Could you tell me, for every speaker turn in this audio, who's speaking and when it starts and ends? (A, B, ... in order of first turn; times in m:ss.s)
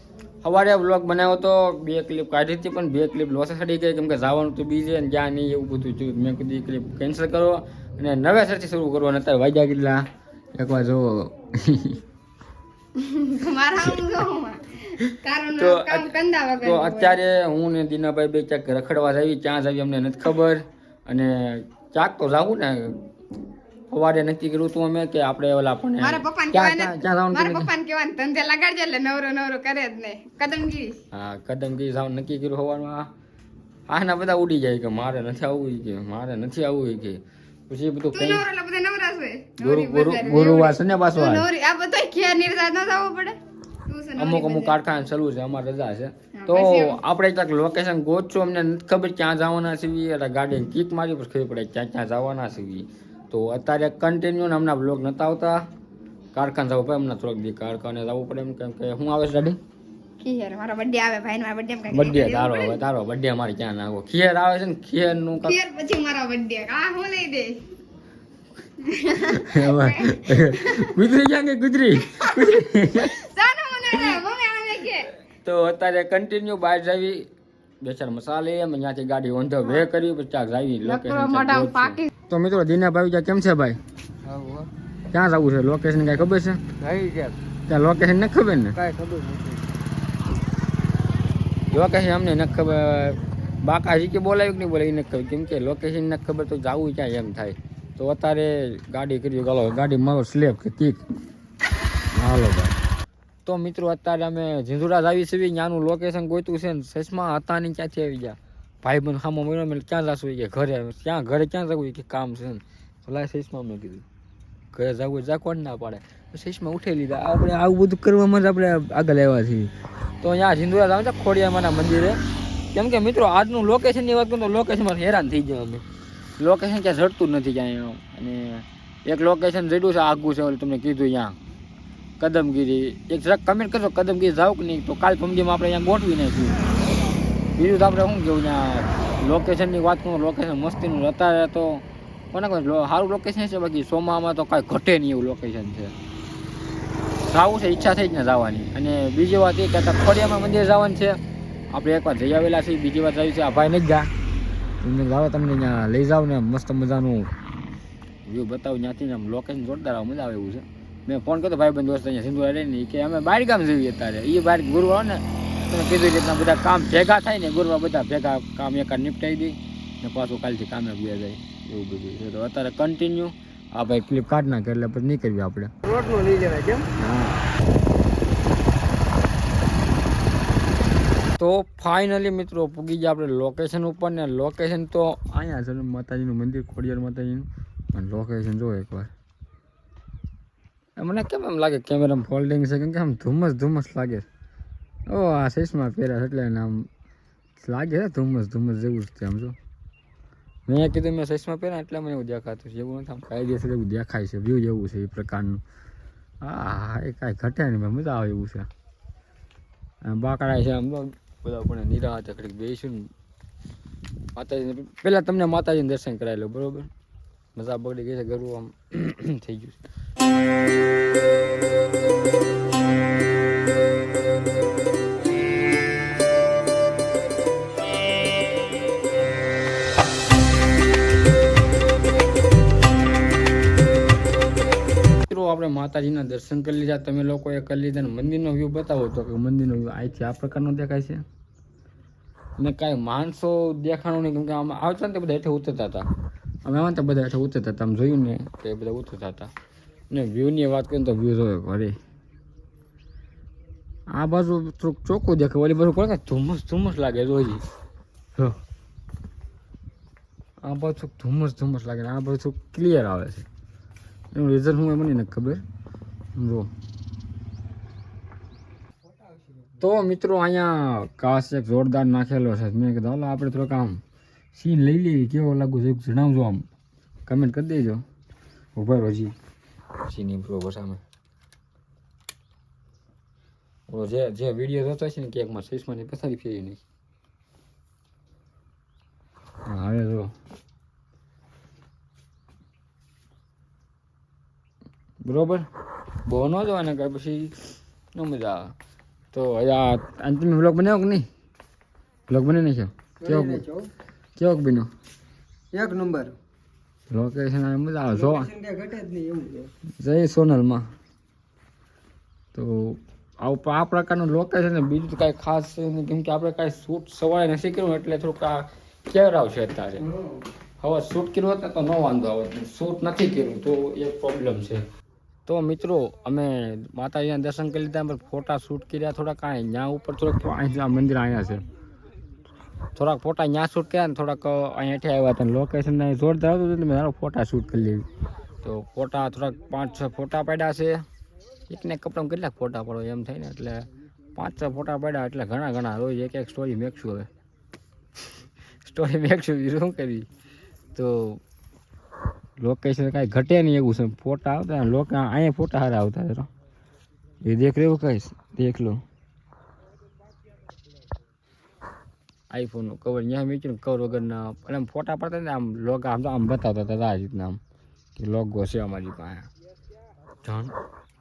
0:00.4-0:12.0 A
0:13.0-0:17.2 B
0:13.8-0:14.1 A
0:15.1-0:23.1 A
0:23.9-0:27.7 A
0:26.0-0:31.0 B
0:31.1-0:33.1 A
0:33.9-0:38.5 A
0:38.1-0:44.8 B
0:39.6-0:41.5 A
0:44.2-0:55.7 A
0:46.4-0:47.0 B
0:56.3-0:59.6 A
1:00.2-1:02.8 B
1:01.9-1:05.6 A
1:05.4-1:07.6 B
1:08.8-1:10.9 B
1:09.3-1:13.2 A
1:13.0-1:15.1 B
1:15.4-1:17.3 A
1:17.8-1:23.8 A
1:20.8-1:22.1 B
1:24.2-1:24.7 C
1:25.1-1:26.6 A
1:26.8-1:27.4 C
1:27.7-1:28.8 A
1:28.8-1:29.7 C
1:31.7-1:41.0 A
1:42.1-1:42.8 A
1:43.4-1:54.0 A
1:54.7-2:02.2 A
2:02.7-2:05.8 A
2:06.4-2:11.4 A
2:12.2-2:16.6 A
2:17.6-2:25.9 A
2:27.3-2:31.2 A
2:31.7-2:34.1 A
2:34.8-2:37.3 A
2:38.3-2:55.8 A
2:55.8-2:56.9 C
2:56.9-2:57.5 A
3:01.4-3:09.1 A
3:11.0-3:14.3 A
3:15.1-3:16.9 A
3:17.6-3:19.6 A
3:20.7-3:25.6 A
3:26.4-3:28.7 A
3:30.0-3:33.1 A
3:34.4-3:36.9 A
3:37.6-3:39.8 A
3:55.3-4:01.2 A
4:02.6-4:06.1 A
4:06.6-4:09.5 A
4:10.1-4:12.0 A
4:14.1-4:17.6 A
4:20.6-4:23.5 A
4:24.3-4:25.6 A
4:26.4-4:26.7 A
4:29.8-4:34.0 A
4:34.5-4:36.7 A
4:37.3-4:38.0 A
4:38.8-4:39.4 A
4:40.0-4:41.0 A
4:43.9-4:46.8 A
4:49.7-4:50.3 A
4:55.2-4:55.7 A
4:56.2-4:58.7 A
4:59.3-5:01.3 A
5:02.3-5:03.6 A
5:03.2-5:03.9 C
5:04.4-5:04.9 A
5:05.7-5:06.4 C
5:07.1-5:08.5 A
5:08.1-5:09.7 C
5:10.0-5:10.9 A
5:12.5-5:20.1 A
5:20.8-5:24.8 A
5:25.5-5:31.6 A
5:33.0-5:38.0 A
5:38.6-5:41.0 A
5:41.7-5:47.3 A
5:48.8-5:50.3 A
5:51.0-5:51.4 A
5:52.6-5:56.5 A
5:57.4-5:59.0 A
6:02.5-6:07.6 A
6:08.2-6:09.5 A
6:10.4-6:10.8 A